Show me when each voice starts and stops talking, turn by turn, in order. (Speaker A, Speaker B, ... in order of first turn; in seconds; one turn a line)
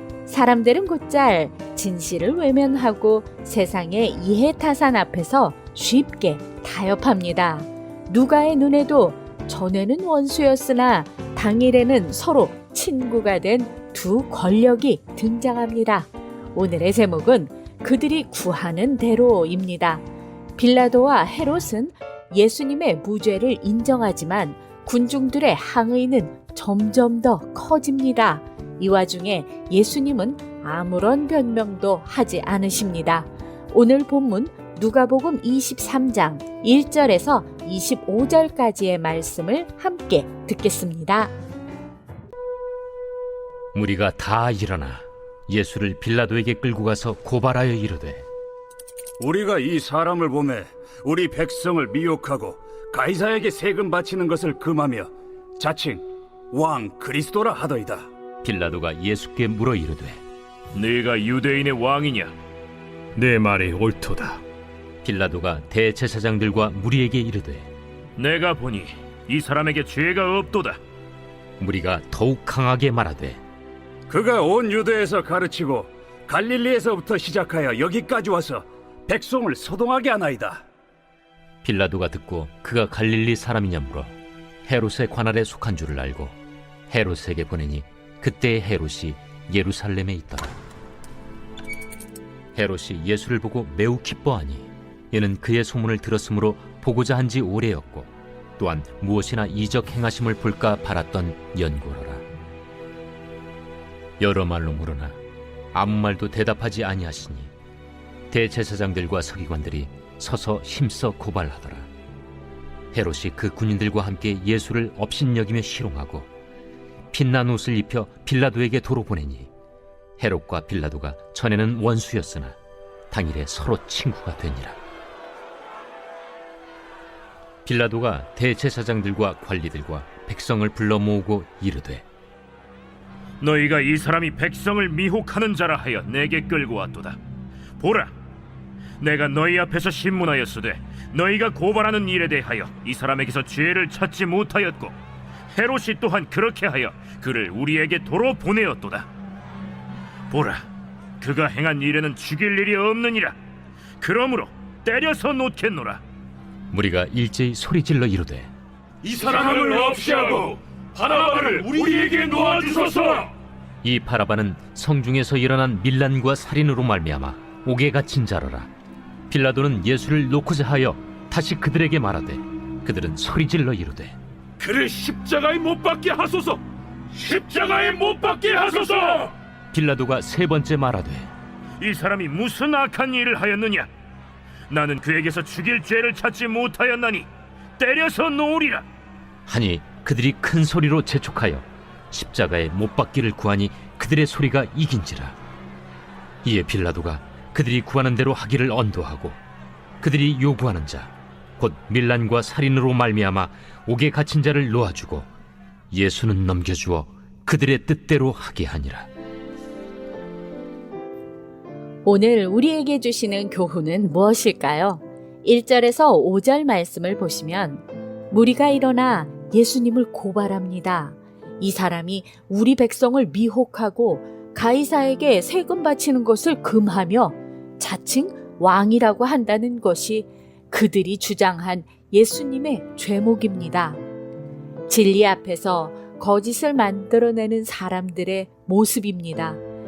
Speaker A: 0.3-20.0
Speaker A: 20.6-41.3
Speaker B: 43.7-48.2
Speaker C: 49.2-58.1
Speaker B: 58.4-60.2
Speaker D: 60.7-62.3
Speaker D: 63.2-64.4
Speaker B: 65.0-67.7
Speaker D: 68.2-70.8
Speaker B: 71.6-73.4
Speaker C: 74.1-80.6
Speaker B: 81.6-84.1
Speaker B: 84.7-86.3
Speaker B: 86.9-90.6
Speaker B: 92.5-102.2
Speaker B: 104.2-105.2
Speaker B: 105.7-107.5
Speaker B: 108.3-111.9
Speaker B: 112.9-116.3
Speaker B: 117.1-119.5
Speaker B: 120.2-122.6
Speaker B: 123.1-124.8
Speaker B: 127.7-132.1
Speaker D: 133.4-137.2
Speaker D: 137.8-138.1
Speaker D: 139.0-145.0
Speaker D: 145.5-149.1
Speaker D: 150.3-150.6
Speaker D: 151.2-153.4
Speaker D: 154.0-156.0
Speaker B: 156.7-158.5
Speaker D: 159.0-163.3
Speaker B: 163.8-168.7
Speaker B: 169.3-174.2
Speaker D: 174.6-176.6
Speaker D: 177.1-179.3
Speaker B: 179.7-181.3
Speaker D: 181.8-183.9
Speaker D: 184.7-187.3
Speaker D: 187.8-188.8
Speaker B: 189.5-195.4
Speaker B: 196.4-199.4
Speaker B: 200.0-205.3
Speaker B: 205.9-209.1
Speaker A: 212.1-234.0
Speaker A: 234.9-239.6